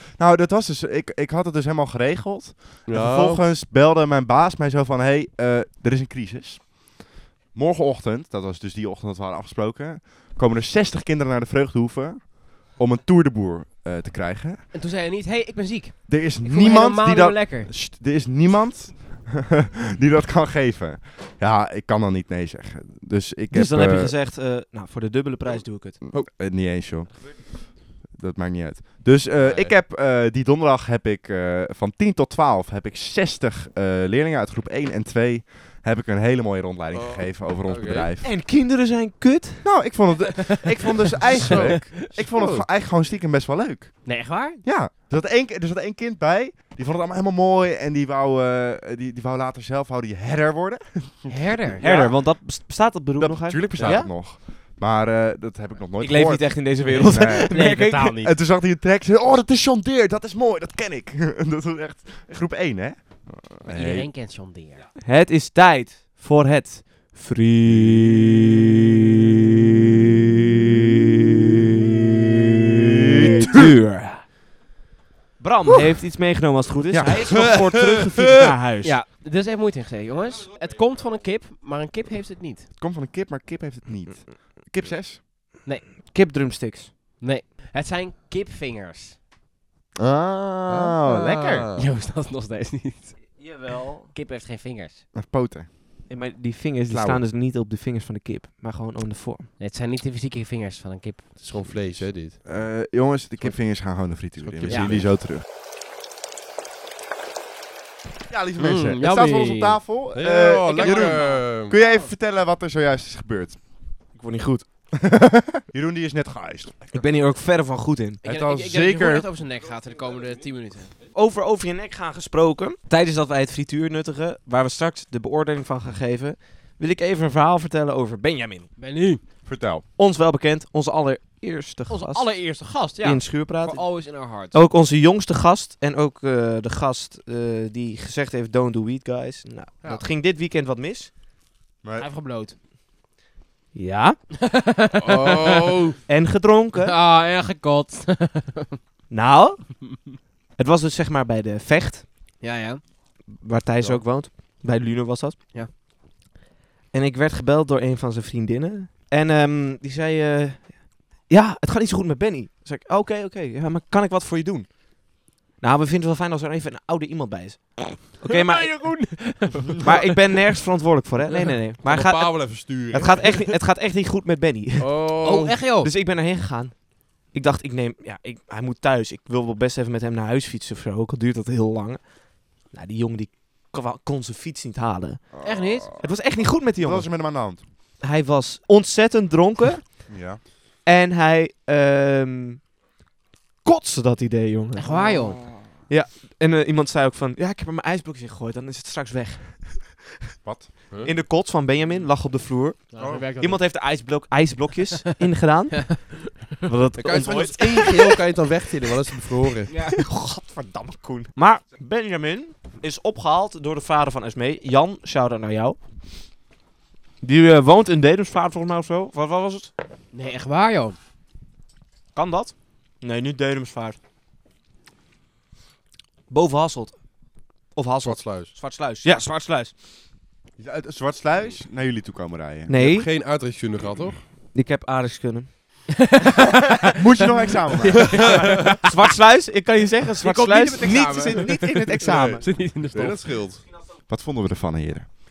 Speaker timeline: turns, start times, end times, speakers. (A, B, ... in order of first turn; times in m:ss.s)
0:00.2-0:06.8 A
0:02.8-0:03.4 B
0:07.5-0:14.6 A
0:14.7-0:17.7 C
0:16.1-0:24.1 A
0:23.5-0:26.0 D
0:26.0-0:38.3 A
0:29.4-0:29.7 B
0:36.9-0:38.1 B
0:38.2-0:39.7 D
0:39.6-0:51.9 A
0:40.5-0:42.0 C
0:41.4-0:42.6 B
0:44.0-0:44.6 C
0:51.3-0:52.1 C
0:51.8-0:54.1 D
0:53.2-1:04.1 A
0:56.0-0:58.2 D
0:56.9-0:58.3 C
1:03.6-1:04.9 C
1:05.0-1:08.4 D
1:12.8-1:14.2 D
1:15.4-1:19.0 D
1:16.9-1:17.6 A
1:17.2-1:18.1 B
1:18.8-1:22.7 C
1:22.8-1:25.2 A
1:26.0-1:26.9 D
1:27.2-1:29.2 C
1:30.0-1:31.6 A
1:30.7-1:31.8 B
1:31.7-1:35.0 C
1:33.4-1:34.1 D
1:35.1-1:35.7 A
1:36.1-1:39.5 D
1:36.9-1:37.2 A
1:39.6-1:41.5 C
1:41.4-1:42.4 B
1:42.4-1:45.4 A
1:44.4-1:45.1 B
1:44.7-1:44.9 C
1:48.3-1:53.6 A
1:48.6-1:49.8 C
1:50.1-1:51.7 B
1:50.7-1:51.5 C
1:54.1-1:54.7 D
1:54.9-1:57.0 A
1:56.9-1:58.2 D
1:58.2-1:59.3 A
1:58.2-2:00.9 C
2:01.1-2:08.7 D
2:08.8-2:09.2 C
2:09.4-2:09.8 A
2:10.0-2:21.1 D
2:11.9-2:14.6 C
2:22.0-2:22.6 C
2:23.7-2:24.2 D
2:24.4-2:25.8 C
2:25.0-2:26.0 B
2:26.1-2:26.9 D
2:26.8-2:28.8 C
2:29.1-2:29.9 D
2:30.6-2:32.1 D
2:32.4-2:32.8 C
2:33.3-2:35.4 D
2:36.9-2:49.0 D
2:48.2-2:50.2 C
2:49.8-3:05.4 D
2:51.8-2:53.3 B
2:54.8-2:55.6 B
2:55.2-2:55.9 C
3:05.3-3:06.1 A
3:05.4-3:06.0 C
3:05.9-3:07.3 D
3:06.8-3:07.6 A
3:08.0-3:10.1 D
3:10.1-3:10.4 A
3:10.8-3:12.6 D
3:13.6-3:15.1 D
3:14.8-3:15.5 C
3:14.9-3:15.7 A
3:15.9-3:20.1 D
3:20.4-3:20.7 A
3:21.0-3:28.1 D
3:22.9-3:23.6 C
3:23.0-3:23.2 B
3:25.7-3:26.4 C
3:27.0-3:29.7 B
3:29.7-3:30.0 C
3:29.7-3:35.8 D
3:37.2-3:39.7 D
3:40.1-3:41.0 C
3:42.1-3:44.0 D
3:46.3-3:47.0 D
3:47.7-3:49.7 D
3:48.0-3:48.5 B
3:50.6-3:52.7 A
3:52.7-3:53.1 D
3:52.7-3:54.2 B
3:54.5-3:55.8 D
3:56.0-3:59.0 C
3:56.9-3:58.3 A
3:58.0-3:58.6 B
3:58.2-4:02.5 D
4:00.2-4:03.2 C
4:02.1-4:03.6 B
4:03.9-4:05.1 A